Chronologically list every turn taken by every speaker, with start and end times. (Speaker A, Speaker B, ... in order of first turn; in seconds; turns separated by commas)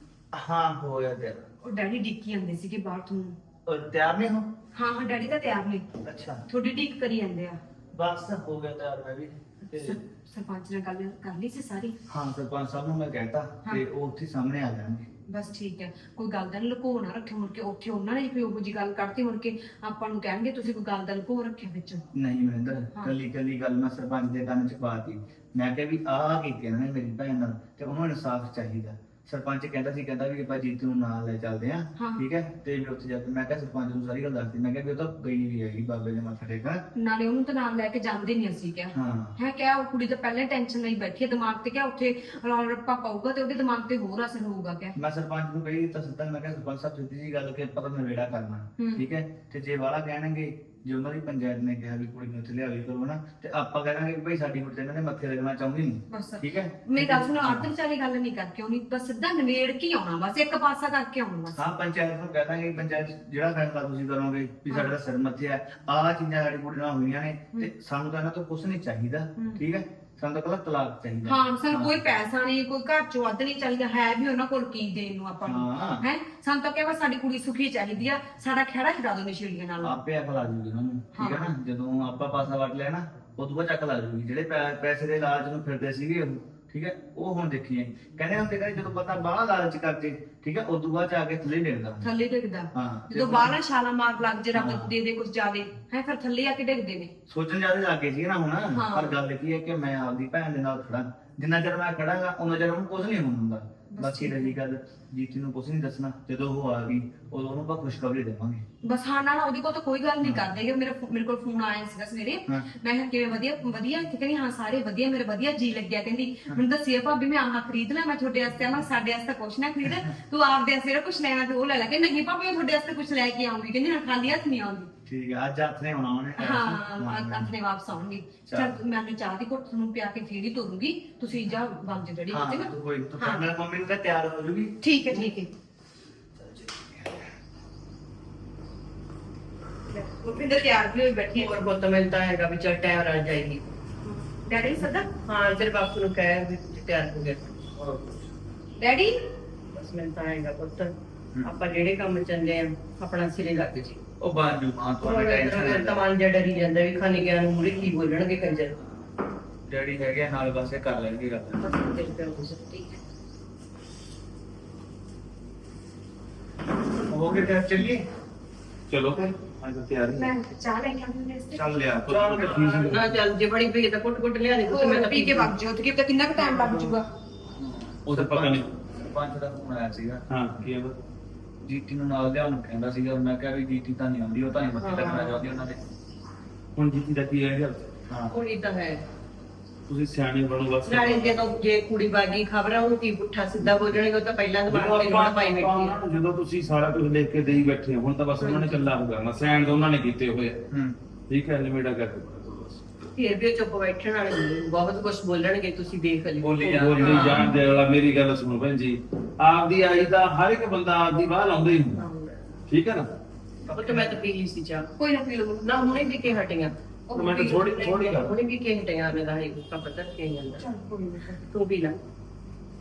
Speaker A: 0.3-1.4, Speaker B: 1.6-3.4, Speaker A: 3.6-4.5, Speaker B: 4.7-5.8, Speaker A: 6.0-6.4, Speaker B: 6.5-7.6, Speaker A: 7.9-10.0, Speaker B: 9.7-12.0, Speaker A: 12.1-15.1, Speaker B: 15.3-22.0, Speaker A: 22.1-36.9, Speaker B: 32.0-32.2, Speaker B: 36.9-44.9, Speaker A: 38.9-39.4, Speaker A: 44.9-57.7, Speaker B: 48.8-49.0, Speaker B: 56.1-61.6, Speaker A: 61.5-72.0, Speaker B: 64.7-64.9, Speaker B: 71.2-80.0, Speaker A: 75.4-76.0, Speaker A: 79.8-92.1, Speaker B: 81.1-81.5, Speaker B: 92.0-97.1, Speaker A: 92.7-93.5, Speaker A: 94.5-94.9, Speaker A: 97.3-108.7, Speaker B: 98.7-99.2, Speaker B: 103.9-104.5, Speaker B: 108.8-124.9, Speaker A: 110.2-110.5, Speaker A: 125.0-127.5, Speaker B: 126.4-133.4, Speaker A: 128.5-128.8, Speaker A: 132.3-134.8, Speaker B: 134.8-135.5, Speaker A: 136.4-137.1, Speaker B: 139.9-141.6, Speaker C: 141.3-143.7, Speaker B: 144.0-145.1, Speaker C: 145.2-147.5, Speaker B: 148.8-149.2, Speaker C: 149.7-154.0, Speaker A: 154.2-156.0, Speaker C: 155.0-158.8, Speaker A: 159.7-161.6, Speaker C: 161.6-162.5, Speaker B: 162.4-163.0, Speaker A: 167.1-168.1, Speaker D: 168.9-170.3, Speaker B: 170.1-171.6, Speaker A: 171.5-172.7, Speaker D: 172.0-173.2, Speaker C: 172.4-175.5, Speaker B: 174.7-177.1, Speaker C: 176.4-177.0, Speaker A: 177.6-180.2, Speaker D: 178.1-178.7, Speaker D: 180.3-180.9, Speaker A: 181.7-185.8, Speaker C: 184.8-185.4, Speaker D: 186.8-187.9, Speaker A: 188.1-188.3, Speaker C: 188.3-189.0, Speaker D: 189.9-191.4, Speaker C: 190.8-196.0, Speaker D: 194.7-200.6, Speaker C: 198.4-198.9, Speaker A: 200.7-200.9, Speaker D: 201.3-203.1, Speaker C: 203.1-207.6, Speaker D: 206.4-212.0, Speaker A: 206.8-207.5, Speaker C: 211.9-212.4, Speaker D: 212.7-213.1, Speaker D: 213.7-214.1, Speaker C: 213.7-214.9, Speaker B: 215.0-215.7, Speaker C: 215.6-216.7, Speaker B: 217.1-218.0, Speaker D: 217.1-218.3, Speaker C: 217.4-220.7, Speaker B: 220.6-221.4, Speaker C: 221.4-222.0